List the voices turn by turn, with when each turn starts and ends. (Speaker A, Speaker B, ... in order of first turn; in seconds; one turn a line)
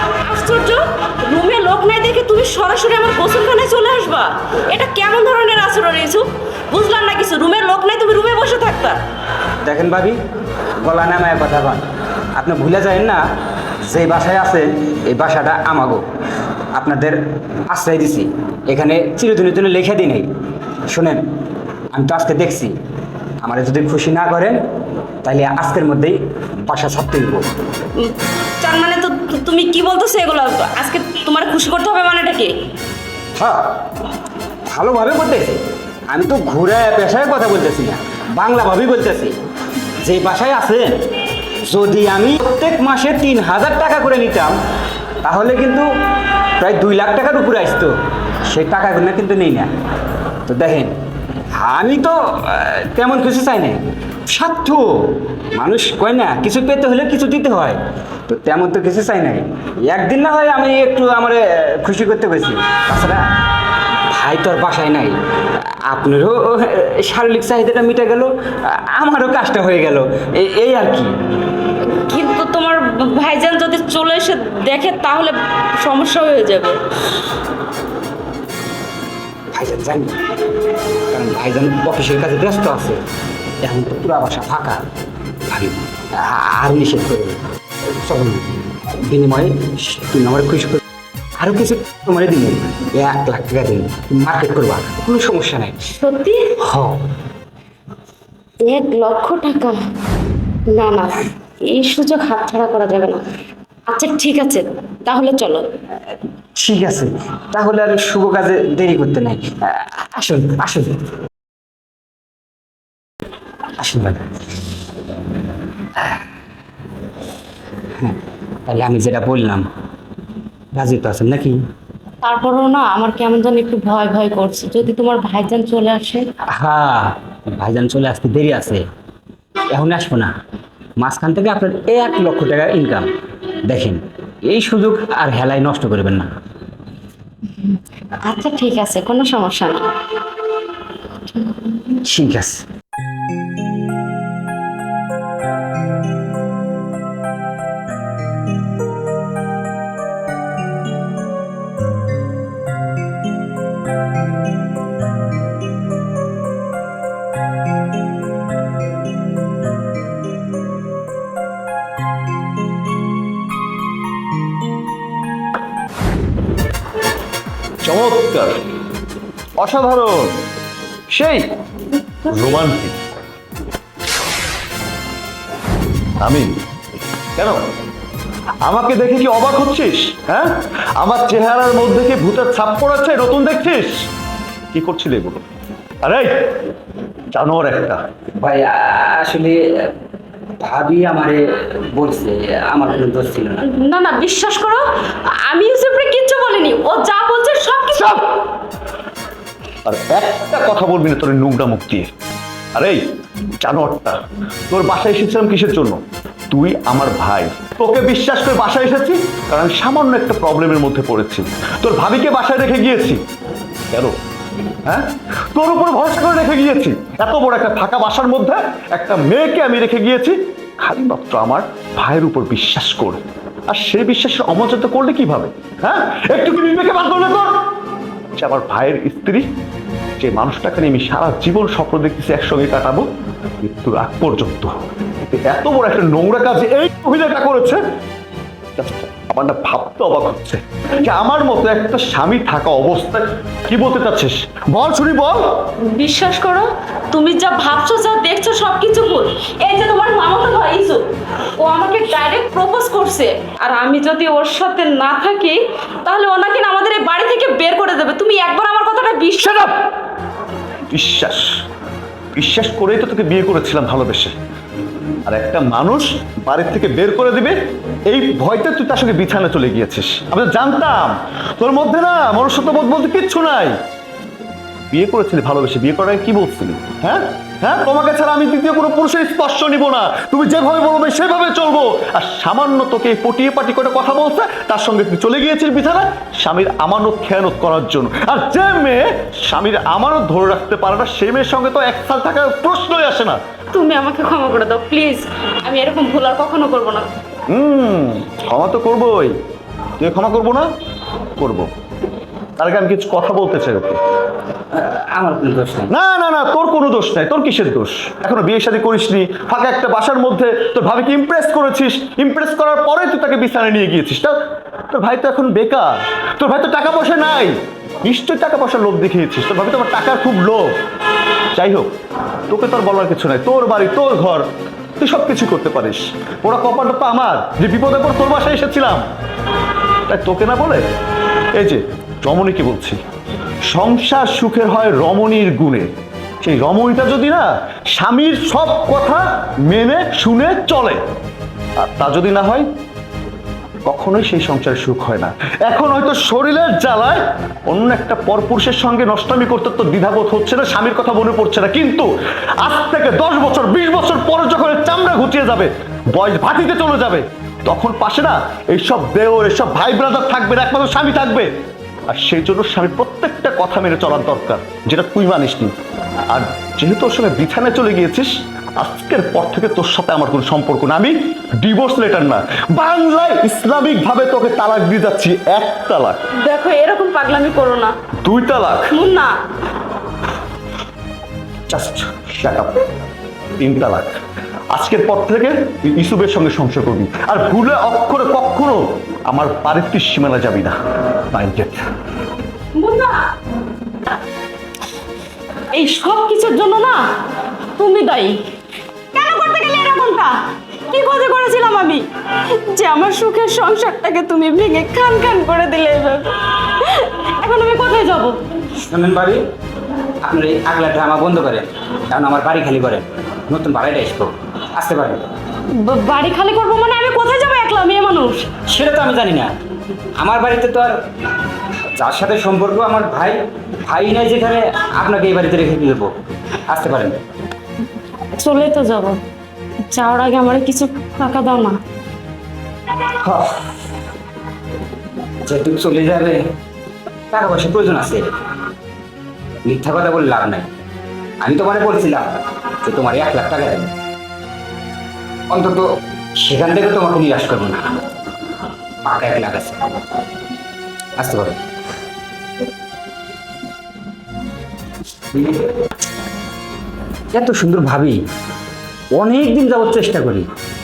Speaker A: 0.2-9.0
Speaker B: 9.6-10.2
Speaker B: 10.8-16.1
Speaker B: 16.7-21.3
Speaker B: 21.9-22.8
Speaker B: 23.4-24.6
Speaker B: 25.2-27.5
Speaker A: 27.9-32.5
Speaker B: 33.3-34.0
Speaker B: 34.6-39.4
Speaker B: 40.0-44.6
Speaker B: 45.2-49.7
Speaker B: 50.4-50.9
Speaker B: 51.5-63.2
Speaker B: 63.9-71.1
Speaker A: 71.8-76.8
Speaker B: 79.5-83.0
Speaker B: 83.6-84.9
Speaker B: 85.4-90.8
Speaker B: 91.4-95.9
Speaker A: 96.0-96.5
Speaker B: 96.6-97.0
Speaker A: 98.6-99.8
Speaker A: 100.7-103.2
Speaker A: 103.9-105.7
Speaker B: 106.5-111.1
Speaker B: 113.8-114.3
Speaker B: 117.9-119.7
Speaker B: 120.7-121.6
Speaker A: 122.2-126.3
Speaker B: 126.5-128.8
Speaker B: 129.7-130.3
Speaker B: 131.0-136.3
Speaker A: 137.6-139.9
Speaker A: 141.3-141.8
Speaker B: 141.9-142.6
Speaker C: 167.8-168.6
Speaker C: 169.6-170.4
Speaker C: 171.1-171.5
Speaker C: 172.2-173.0
Speaker C: 176.2-176.5
Speaker C: 178.6-184.1
Speaker C: 184.7-185.4
Speaker C: 186.0-186.7
Speaker C: 187.3-188.0
Speaker B: 188.4-189.9
Speaker B: 190.6-193.6
Speaker A: 193.7-198.4
Speaker C: 199.8-202.1
Speaker C: 202.7-203.0
Speaker C: 203.6-204.2
Speaker C: 204.7-206.0
Speaker C: 206.5-213.2
Speaker C: 214.8-227.6
Speaker C: 228.3-229.4
Speaker C: 230.2-233.0
Speaker C: 233.6-234.7
Speaker C: 235.3-237.8
Speaker C: 238.8-245.4
Speaker A: 245.9-251.0
Speaker A: 251.6-259.8
Speaker C: 260.9-261.5
Speaker C: 262.4-264.3
Speaker C: 265.2-267.5
Speaker C: 268.1-273.7
Speaker C: 274.9-293.4
Speaker A: 293.7-297.1
Speaker C: 297.5-299.3
Speaker C: 300.0-300.7
Speaker C: 301.4-301.7
Speaker C: 302.6-304.0
Speaker B: 304.7-305.9
Speaker C: 305.9-314.4
Speaker C: 314.9-320.8
Speaker C: 321.6-321.9
Speaker C: 322.5-324.5
Speaker C: 325.0-329.0
Speaker C: 330.1-330.8
Speaker C: 331.5-333.0
Speaker C: 333.7-335.9
Speaker C: 336.4-341.0
Speaker C: 341.8-342.7
Speaker C: 343.8-361.5
Speaker C: 362.1-365.7
Speaker C: 366.3-376.3
Speaker A: 376.4-377.9
Speaker C: 378.2-378.9
Speaker A: 378.9-379.3
Speaker C: 381.7-382.8
Speaker C: 383.6-384.2
Speaker C: 384.7-391.9
Speaker A: 392.7-393.3
Speaker A: 395.7-397.0
Speaker A: 397.8-398.4
Speaker A: 399.1-408.4
Speaker B: 408.8-409.4
Speaker B: 410.2-415.3
Speaker A: 415.7-418.5
Speaker B: 418.6-419.5
Speaker B: 420.2-421.0
Speaker B: 421.9-426.1
Speaker B: 426.6-427.2
Speaker A: 428.4-429.2
Speaker A: 429.9-431.8
Speaker B: 433.2-433.7
Speaker B: 435.4-436.5
Speaker B: 437.3-438.3
Speaker B: 439.6-440.7
Speaker B: 441.4-443.9
Speaker B: 445.5-448.1
Speaker B: 449.0-449.8
Speaker B: 451.2-451.6
Speaker B: 455.3-455.7
Speaker B: 457.3-458.2
Speaker B: 459.1-460.5